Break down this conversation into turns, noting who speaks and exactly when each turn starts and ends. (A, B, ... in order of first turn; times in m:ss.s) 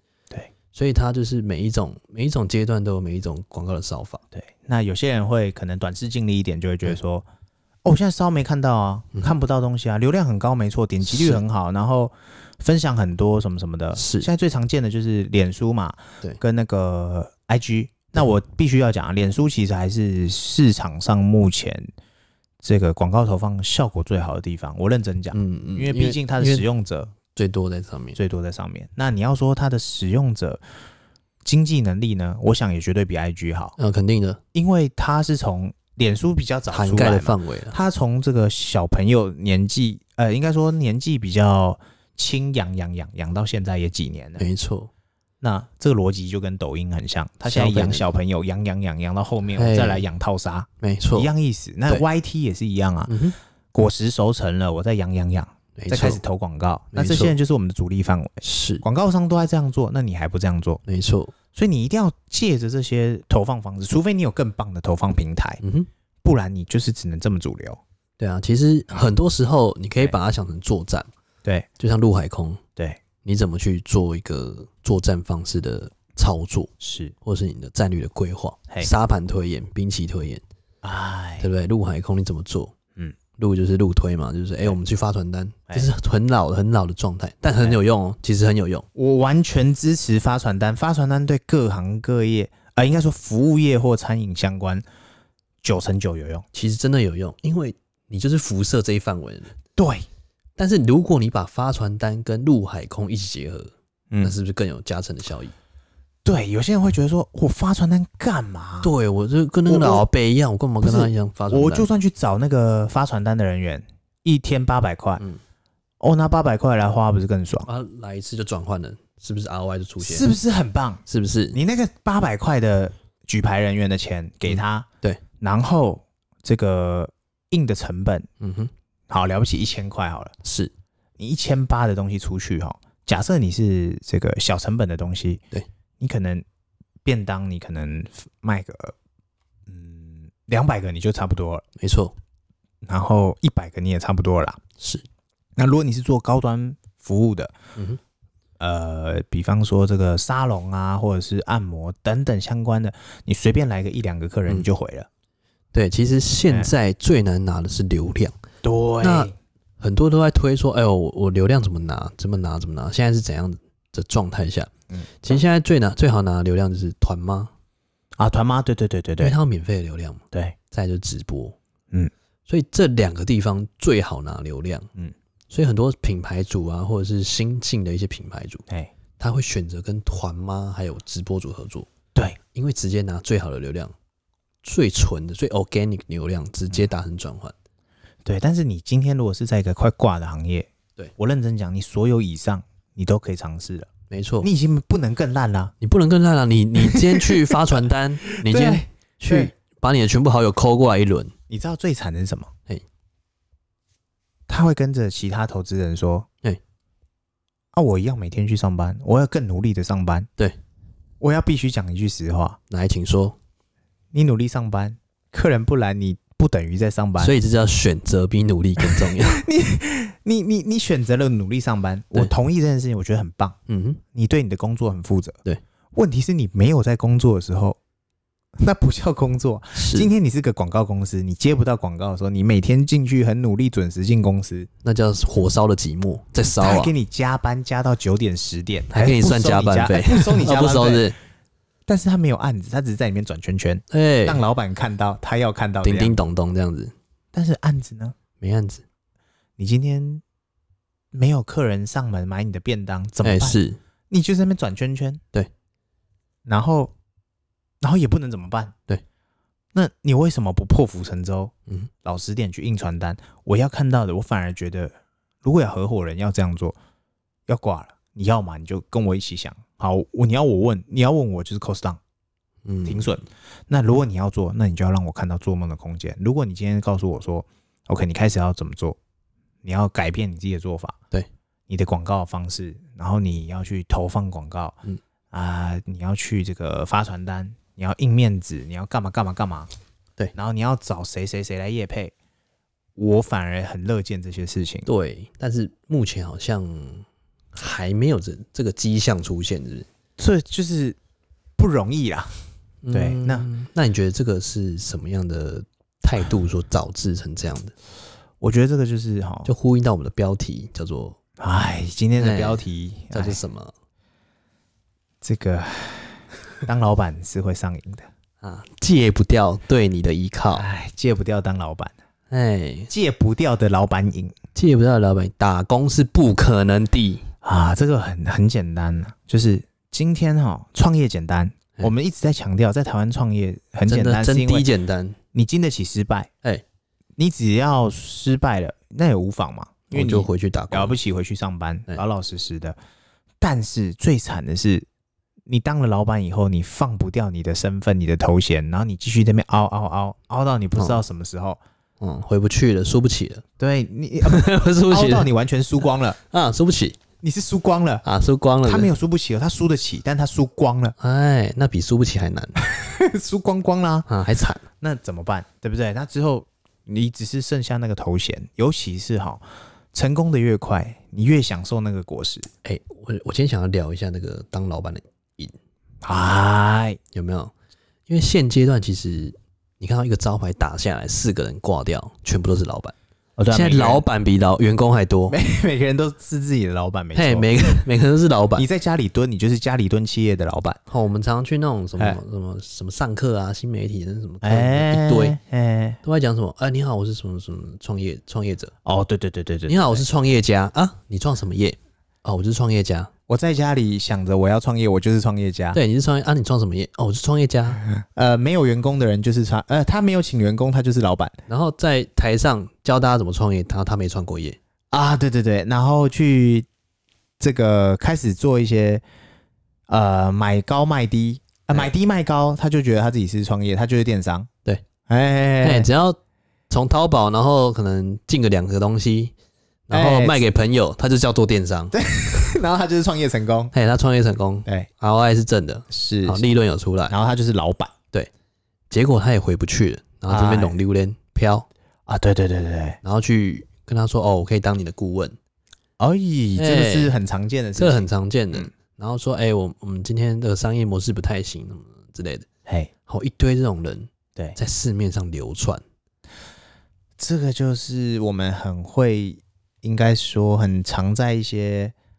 0:00.7-0:04.2 A
0:04.3-0:07.3 B
0:07.8-0:21.9 B
0:11.1-0:11.4 A
0:14.0-0:14.3 A
0:22.6-0:27.1 B
0:25.3-0:26.7 A
0:27.3-0:28.2 A
0:28.2-0:30.6 B
0:31.4-0:33.8 B
0:33.8-0:34.4 A
0:34.5-0:44.4 B
0:36.7-0:37.8 A
0:44.4-0:44.9 A
0:45.4-0:53.2 B
0:47.5-0:48.1 A
0:49.5-0:50.0 A
0:50.8-0:51.3 A
0:53.1-0:53.4 A
0:53.7-1:00.8 B
0:55.8-0:56.2 A
0:56.9-0:57.4 A
0:58.4-0:58.8 A
1:00.9-1:01.3 A
1:01.5-1:05.6 B
1:05.6-1:05.9 A
1:06.2-1:07.8 B
1:08.2-1:11.1 A
1:11.8-1:12.6 A
1:13.2-1:16.7 A
1:16.8-1:17.1 B
1:17.2-1:20.4 A
1:20.8-1:21.5 B
1:21.4-1:22.7 A
1:23.4-1:28.9 A
1:29.0-1:34.8 B
1:35.6-1:36.4 B
1:36.5-1:39.5 A
1:39.8-1:40.1 B
1:40.6-1:45.6 A
1:46.2-1:48.9 B
1:48.8-1:51.9 A
1:49.7-1:50.0 B
1:50.8-1:55.2 B
1:56.0-1:57.7 B
1:57.7-2:00.3 A
2:00.0-2:04.9 B
2:01.1-2:01.6 A
2:04.5-2:05.2 A
2:05.4-2:08.3 B
2:08.4-2:08.7 A
2:09.1-2:10.3 B
2:10.4-2:10.7 A
2:11.2-2:15.4 B
2:16.0-2:16.4 B
2:17.0-2:19.0 B
2:19.7-2:21.6 B
2:21.8-2:22.2 A
2:22.8-2:24.6 B
2:24.8-2:25.0 A
2:25.6-2:27.6 B
2:28.6-2:35.1 B
2:35.7-2:38.4 A
2:38.6-2:39.3 B
2:39.0-2:47.5 A
2:48.2-2:49.4 B
2:49.2-2:51.6 A
2:52.5-2:54.9 A
2:55.5-2:58.7 A
2:59.2-3:01.9 A
3:02.5-3:03.9 A
3:04.6-3:07.5 A
3:08.2-3:13.9 B
3:14.1-3:14.5 A
3:14.4-3:15.7 B
3:15.8-3:21.3 A
3:16.8-3:17.8 B
3:18.3-3:19.5 B
3:21.5-3:22.5 B
3:24.5-3:26.3 B
3:27.7-3:30.3 B
3:31.2-3:32.6 B
3:32.7-3:33.4 A
3:34.1-3:37.3 B
3:37.2-3:39.4 A
3:38.8-3:43.6 B
3:43.7-3:44.0 A
3:44.1-3:45.4 B
3:46.0-3:47.8 B
3:48.6-3:54.7 B
3:49.8-3:50.1 A
3:54.8-3:56.9 A
3:56.6-4:01.1 B
3:58.9-4:01.2 A
4:01.9-4:06.2 B
4:03.9-4:04.4 A
4:05.8-4:06.9 A
4:07.3-4:08.2 B
4:08.4-4:08.8 A
4:09.6-4:10.2 B
4:11.1-4:13.6 B
4:13.2-4:13.8 A
4:14.1-4:15.2 B
4:16.5-4:16.9 B
4:17.8-4:18.8 B
4:19.7-4:26.8 B
4:27.5-4:32.0 B
4:32.6-4:33.2 A
4:32.9-4:39.0 B
4:39.6-4:41.0 B
4:41.7-4:44.8 B
4:45.3-4:49.7 B
4:50.4-4:52.1 B
4:53.0-4:54.9 B
4:54.9-4:59.9 A
5:00.2-5:01.0 B
5:01.6-5:03.5 B
5:02.8-5:07.7 A
5:08.4-5:09.5 B
5:09.4-5:11.2 A
5:11.4-5:13.4 B
5:12.2-5:13.7 A
5:15.2-5:18.1 B
5:18.4-5:20.7 A
5:20.5-5:21.9 B
5:22.3-5:22.9 A
5:22.9-5:24.4 B
5:24.6-5:27.3 A
5:27.4-5:34.7 B
5:33.9-5:35.2 A
5:35.3-5:36.3 B
5:37.2-5:42.8 B
5:39.9-5:41.0 A
5:43.4-5:44.9 B
5:45.5-5:51.6 B
5:52.0-5:53.4 A
5:53.6-5:56.2 B
5:54.2-5:55.3 A
5:56.2-5:57.0 A
5:57.2-5:58.0 B
5:58.0-5:58.9 A
5:58.6-6:01.0 B
6:01.0-6:02.6 A
6:02.6-6:04.1 B
6:04.1-6:04.6 A
6:04.8-6:12.5 B
6:12.6-6:15.6 A
6:16.0-6:17.0 B
6:17.1-6:17.5 A
6:18.1-6:23.0 A
6:23.4-6:24.0 B
6:23.5-6:25.4 A
6:25.3-6:27.8 B
6:27.2-6:28.7 A
6:28.6-6:30.8 B
6:30.9-6:35.4 A
6:34.4-6:36.0 B
6:36.0-6:38.7 A
6:38.8-6:40.0 B
6:39.7-6:43.1 A
6:43.3-6:45.8 B
6:45.7-6:47.8 A
6:47.8-6:51.4 B
6:51.5-6:54.6 A
6:54.9-6:56.7 B
6:57.4-6:59.0 B
6:59.9-7:04.5 B
7:05.1-7:05.9 B
7:05.6-7:06.2 A
7:06.7-7:09.3 A
7:09.9-7:12.4 A
7:09.9-7:10.4 B
7:11.9-7:13.7 B
7:13.7-7:17.2 A
7:15.9-7:16.4 B
7:17.1-7:17.9 B
7:18.9-7:21.7 A
7:20.3-7:20.8 B
7:22.1-7:23.0 B
7:23.0-7:25.4 A
7:26.0-7:28.7 B
7:26.6-7:27.1 A
7:27.8-7:32.5 A
7:33.1-7:35.8 A
7:37.2-7:41.9 B